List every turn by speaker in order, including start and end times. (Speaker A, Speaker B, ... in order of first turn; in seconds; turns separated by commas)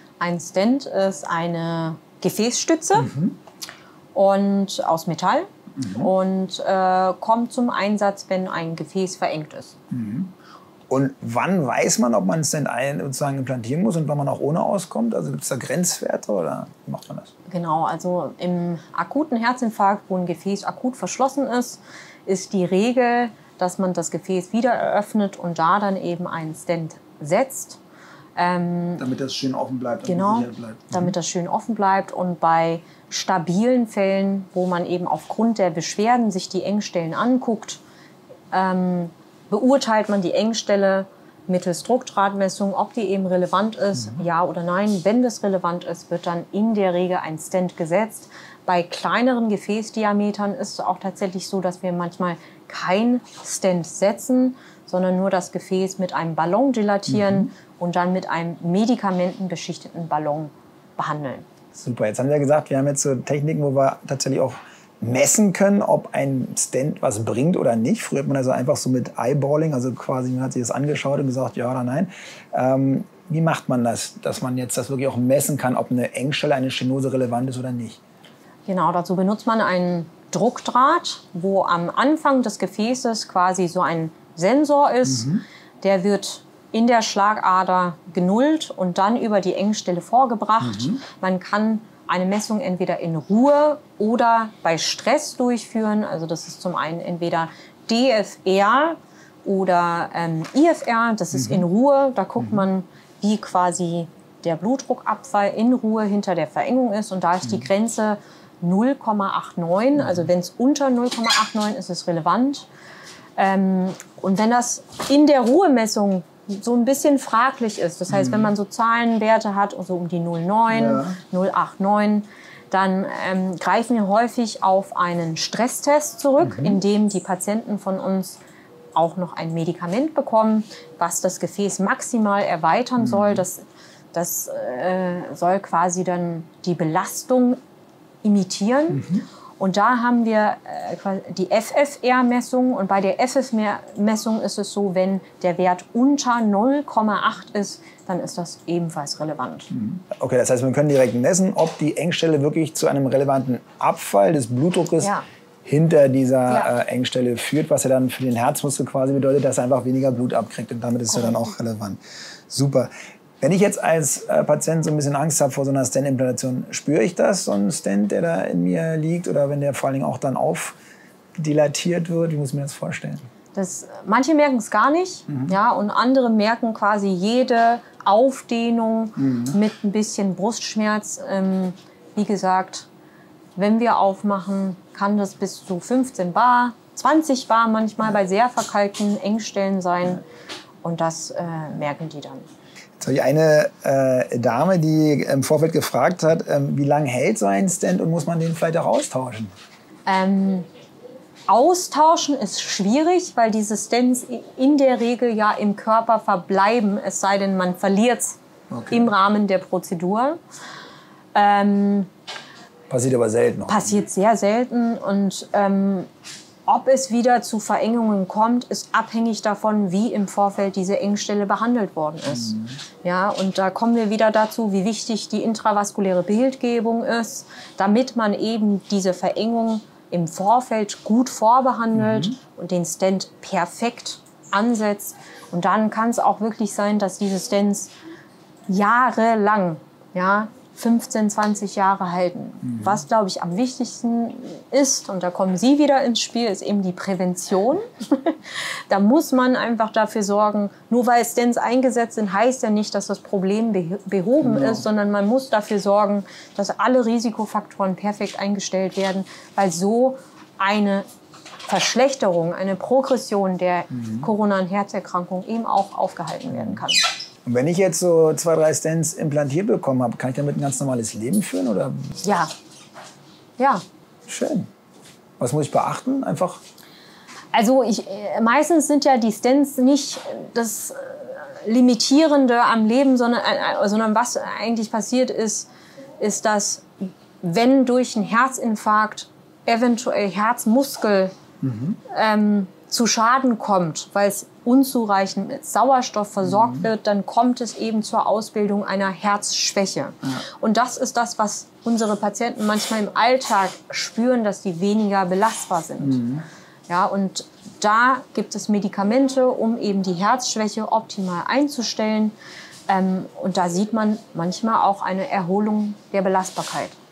Speaker A: 0.2-3.1, Speaker B: 3.0-3.3, Speaker A: 4.1-9.8, Speaker B: 5.8-6.1, Speaker B: 9.9-10.3, Speaker B: 10.9-17.3, Speaker A: 17.5-27.8, Speaker A: 28.4-29.0, Speaker B: 29.0-31.1, Speaker A: 30.1-37.8, Speaker A: 38.5-61.4, Speaker B: 57.1-57.4, Speaker B: 61.7-78.0, Speaker A: 78.7-112.7, Speaker B: 85.1-85.4, Speaker A: 113.3-128.4, Speaker B: 120.7-121.2, Speaker A: 128.9-137.6, Speaker A: 138.2-149.7, Speaker B: 149.7-155.1, Speaker B: 155.6-162.9, Speaker A: 156.5-156.7, Speaker B: 163.4-170.8, Speaker B: 171.4-173.2, Speaker A: 173.5-182.9, Speaker B: 179.2-179.5, Speaker A: 183.6-190.2, Speaker A: 190.8-192.4, Speaker B: 193.0-199.5, Speaker A: 200.1-200.7, Speaker A: 201.5-208.4, Speaker B: 208.7-209.1, Speaker A: 208.9-210.4, Speaker A: 211.3-212.1, Speaker B: 212.9-214.0, Speaker A: 213.7-216.1, Speaker A: 216.7-237.9, Speaker B: 232.0-232.3, Speaker A: 238.7-261.1, Speaker B: 254.4-254.8, Speaker A: 261.6-267.1, Speaker B: 263.9-264.3, Speaker B: 266.5-266.8, Speaker B: 267.4-272.1, Speaker A: 272.2-272.5, Speaker A: 273.6-273.8, Speaker B: 274.3-274.7, Speaker B: 275.4-276.6, Speaker A: 277.5-286.8, Speaker A: 287.4-291.3, Speaker B: 291.6-292.0, Speaker A: 292.1-306.2, Speaker B: 296.5-296.8, Speaker B: 306.0-306.4, Speaker A: 306.9-312.4, Speaker A: 312.9-316.9